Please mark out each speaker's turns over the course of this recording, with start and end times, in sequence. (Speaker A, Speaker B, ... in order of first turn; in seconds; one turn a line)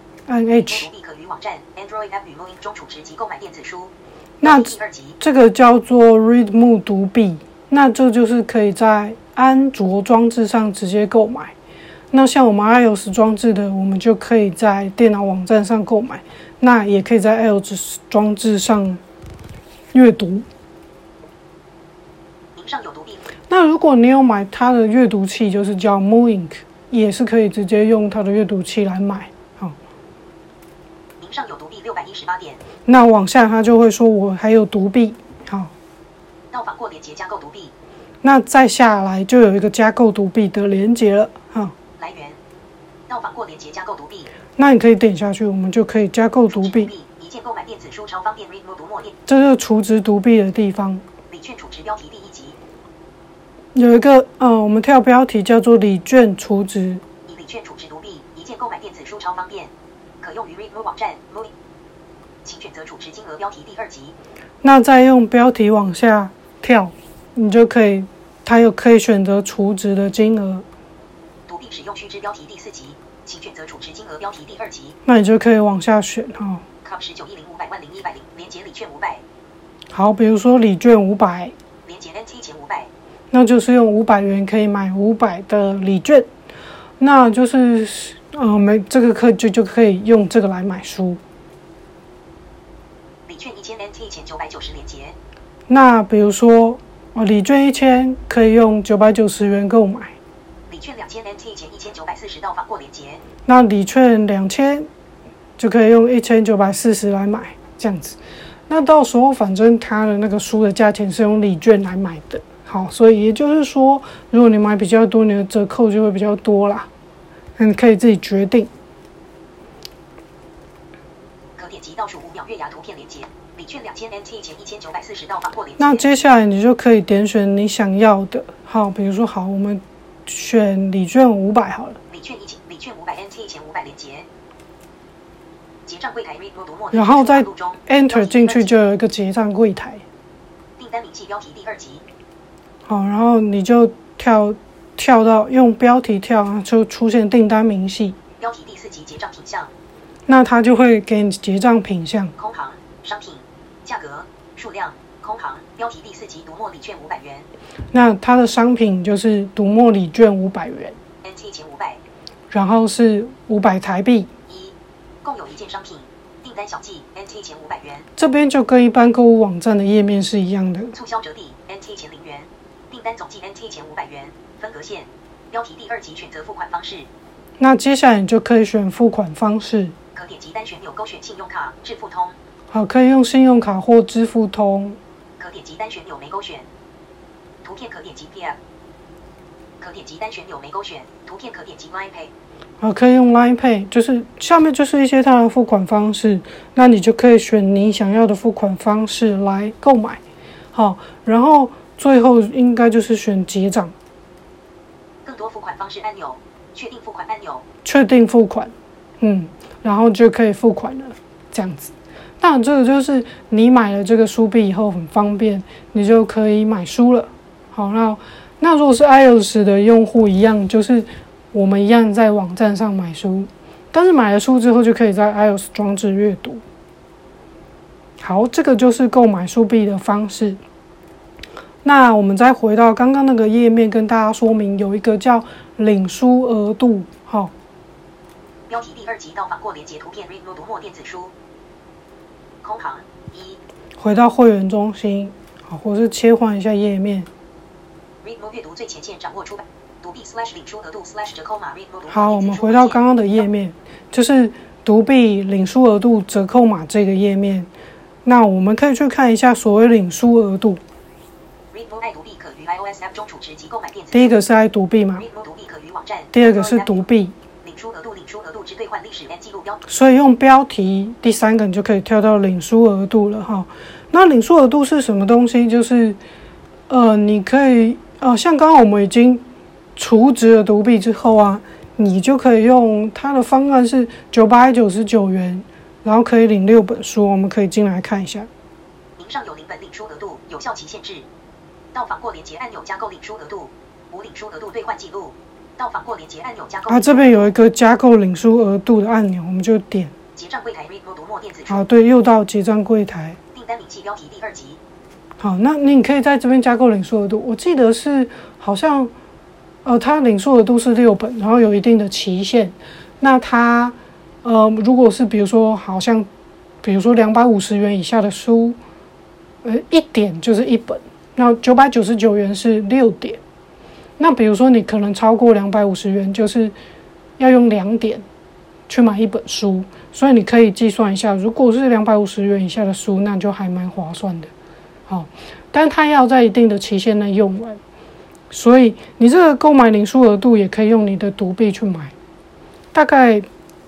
Speaker A: 0.3-0.9
Speaker B: 0.5-5.2
Speaker A: 4.4-11.5
Speaker A: 12.1-19.0
Speaker A: 19.9-20.4
Speaker B: 22.5-23.3
Speaker A: 23.5-29.8
Speaker B: 31.2-32.6
Speaker A: 32.9-35.7
Speaker B: 36.5-37.7
Speaker A: 38.2-41.7
Speaker B: 42.0-42.4
Speaker B: 43.1-44.3
Speaker A: 44.6-46.9
Speaker B: 46.5-49.2
Speaker A: 49.3-51.0
Speaker B: 51.3-52.6
Speaker A: 53.7-57.0
Speaker B: 57.3-61.5
Speaker B: 62.4-64.2
Speaker A: 64.6-70.6
Speaker B: 71.5-75.0
Speaker A: 75.0-76.6
Speaker B: 76.8-79.2
Speaker A: 79.9-81.5
Speaker B: 81.8-82.9
Speaker A: 83.3-86.3
Speaker A: 87.0-91.2
Speaker B: 93.2-95.2
Speaker A: 95.7-100.2
Speaker B: 100.7-103.2
Speaker A: 103.5-104.9
Speaker A: 105.6-108.2
Speaker A: 108.7-116.9
Speaker A: 117.6-118.7
Speaker B: 121.6-126.1
Speaker A: 125.8-132.0
Speaker B: 132.1-134.3
Speaker B: 135.8-138.8
Speaker A: 136.9-140.0
Speaker B: 140.8-142.0
Speaker A: 142.9-148.2
Speaker B: 148.4-149.7
Speaker A: 150.3-152.3
Speaker B: 152.3-157.5
Speaker A: 157.9-160.9
Speaker B: 161.2-162.0
Speaker A: 162.5-164.3
Speaker B: 164.5-168.1
Speaker A: 168.2-170.9
Speaker B: 170.9-177.1
Speaker A: 177.6-179.9
Speaker B: 180.1-182.4
Speaker A: 182.7-185.0
Speaker B: 185.4-186.7
Speaker B: 187.6-188.6
Speaker B: 189.8-192.3
Speaker A: 192.8-200.2
Speaker A: 200.7-203.9
Speaker B: 205.2-207.6
Speaker A: 207.8-226.6
Speaker A: 228.2-230.6
Speaker A: 231.8-237.5
Speaker B: 238.7-241.3
Speaker B: 242.6-243.6
Speaker A: 244.0-247.3
Speaker B: 248.2-253.4
Speaker A: 252.1-257.7
Speaker A: 258.2-260.8
Speaker B: 261.7-264.3
Speaker A: 264.1-265.3
Speaker B: 265.1-267.1
Speaker A: 266.3-267.3
Speaker B: 267.6-269.8
Speaker A: 269.9-276.2
Speaker A: 276.9-279.4
Speaker A: 279.9-288.5
Speaker B: 289.2-291.3
Speaker B: 291.9-297.6
Speaker A: 296.9-300.1
Speaker B: 300.3-301.9
Speaker A: 301.7-303.4
Speaker B: 303.5-304.8
Speaker A: 305.4-309.1
Speaker A: 309.8-316.3
Speaker A: 316.8-318.8
Speaker A: 319.6-323.4
Speaker A: 324.2-326.7
Speaker A: 327.4-328.2
Speaker A: 328.9-334.5
Speaker A: 335.1-337.8
Speaker A: 338.5-342.1
Speaker A: 342.9-343.5